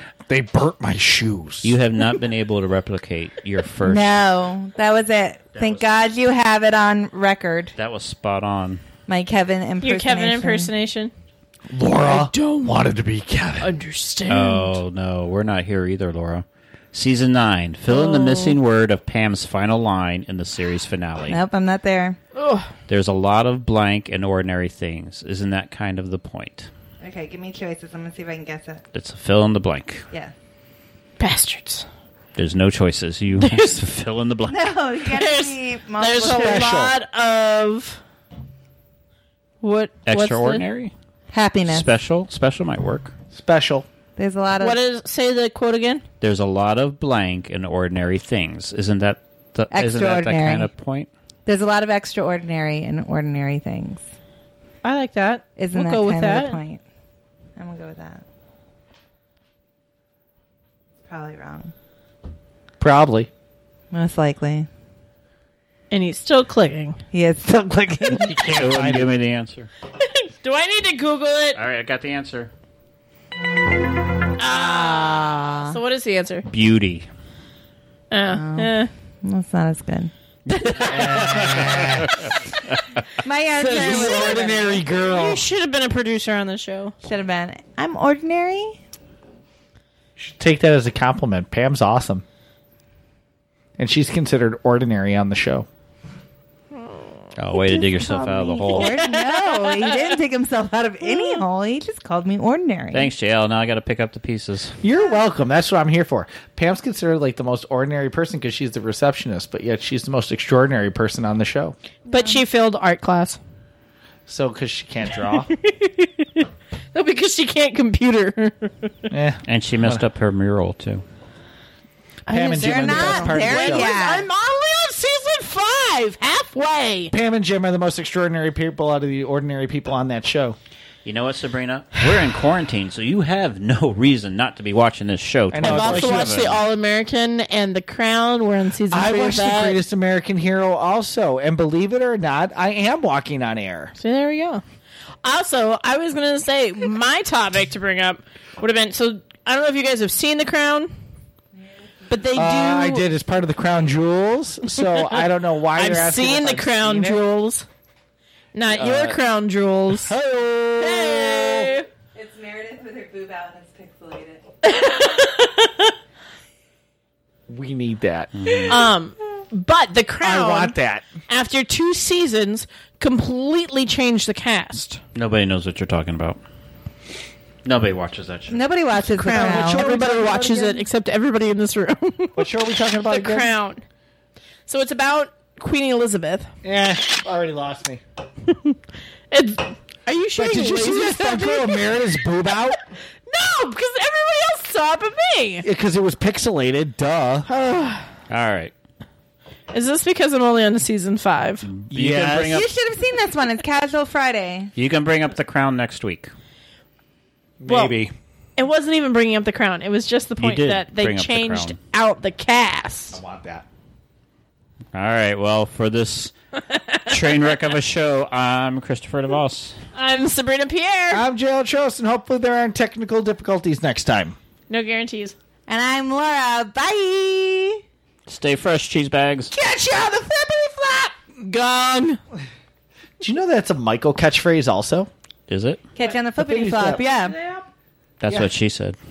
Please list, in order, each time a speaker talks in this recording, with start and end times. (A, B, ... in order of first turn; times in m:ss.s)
0:00.3-0:01.8 A
0:01.6-0:04.1 B
0:03.8-0:07.8 C
0:05.6-0:05.8 B
0:07.8-0:08.8 B
0:09.1-0:10.7 C
0:09.8-0:11.1 D
0:11.7-0:13.7 A
0:12.0-0:12.8 D
0:13.6-0:14.7 D
0:14.3-0:21.4 B
0:17.9-0:18.6 D
0:21.3-0:22.2 C
0:22.3-0:22.7 D
0:22.9-0:26.7 B
0:27.0-0:28.8 C
0:28.9-0:30.0 B
0:31.2-0:31.9 D
0:32.4-0:34.6 B
0:33.4-0:33.9 D
0:34.5-0:36.9 C
0:35.1-0:38.0 D
0:36.3-0:36.9 A
0:39.6-0:40.6 D
0:40.1-0:40.9 B
0:41.3-0:41.9 C
0:41.7-0:43.1 B
0:43.3-0:43.9 A
0:44.2-0:44.8 C
0:44.6-0:46.0 D
0:46.2-0:51.1 B
0:49.7-0:50.7 C
0:51.5-0:54.1 C
0:54.8-0:56.6 D
0:55.6-0:56.8 C
0:57.6-0:58.2 C
1:01.1-1:01.7 C
1:02.8-1:03.3 A
1:03.9-1:04.7 C
1:05.9-1:07.0 D
1:07.1-1:08.4 C
1:08.1-1:09.1 A
1:08.6-1:09.7 B
1:10.0-1:11.6 D
1:11.6-1:12.5 B
1:14.4-1:16.5 D
1:14.4-1:15.8 C
1:16.5-1:17.1 B
1:18.1-1:18.9 D
1:18.3-1:20.1 C
1:20.5-1:21.0 D
1:20.6-1:22.8 B
1:20.8-1:22.3 A
1:23.2-1:24.9 C
1:23.6-1:26.9 D
1:23.6-1:25.4 A
1:27.0-1:28.8 C
1:30.2-1:32.2 A
1:33.8-1:35.7 A
1:36.8-1:37.0 D
1:37.4-1:38.9 B
1:37.8-1:43.1 C
1:38.7-1:40.2 D
1:41.1-1:41.4 D
1:42.9-1:44.8 B
1:44.8-1:51.8 A
1:52.1-1:53.4 D
1:52.2-1:52.4 C
1:54.3-1:55.5 A
1:55.3-1:59.1 D
1:59.1-2:00.0 A
1:59.4-2:01.0 B
2:02.3-2:03.9 A
2:02.3-2:04.3 C
2:02.3-2:07.1 D
2:07.1-2:10.6 A
2:11.0-2:16.6 B
2:15.5-2:16.6 A
2:15.6-2:19.8 D
2:18.9-2:23.9 A
2:24.0-2:24.6 D
2:25.2-2:30.9 D
2:31.6-2:32.1 C
2:32.1-2:33.0 D
2:32.3-2:37.2 A
2:34.7-2:37.7 D
2:38.5-2:40.2 D
2:38.7-2:39.2 A
2:39.9-2:41.7 A
2:40.8-2:41.9 D
2:42.2-2:44.4 C
2:44.6-2:45.9 D
2:47.5-2:48.3 A
2:48.3-2:48.8 B
2:48.7-2:50.8 D
2:50.2-2:51.0 A
2:51.3-2:55.0 D
2:55.2-2:56.4 B
2:57.6-2:58.6 B
2:58.5-2:59.9 C
2:59.2-3:03.8 D
2:59.2-3:00.8 A
3:02.4-3:03.5 A
3:04.7-3:06.5 D
3:06.6-3:08.0 A
3:08.5-3:08.8 D
3:09.3-3:12.7 D
3:10.4-3:12.8 A
3:13.3-3:15.7 D
3:15.6-3:17.5 A
3:17.5-3:18.1 D
3:18.3-3:18.7 B
3:19.7-3:21.7 D
3:21.6-3:22.7 B
3:21.9-3:22.5 A
3:22.5-3:24.7 C
3:24.8-3:26.3 B
3:27.6-3:28.1 A
3:27.7-3:28.0 D
3:28.6-3:33.2 D
3:30.4-3:31.8 B
3:33.1-3:33.6 A
3:34.9-3:36.3 B
3:36.7-3:37.0 D
3:37.1-3:39.8 B
3:39.9-3:41.2 D
3:41.1-3:44.4 A
3:44.7-3:45.4 D
3:45.7-3:47.8 C
3:48.3-3:49.5 B
3:49.5-3:51.2 A
3:51.4-3:52.2 D
3:53.2-3:55.1 A
3:55.5-3:55.8 B
3:56.0-3:57.4 C
3:56.4-3:57.0 A
3:57.0-3:57.6 D
3:58.2-3:59.0 B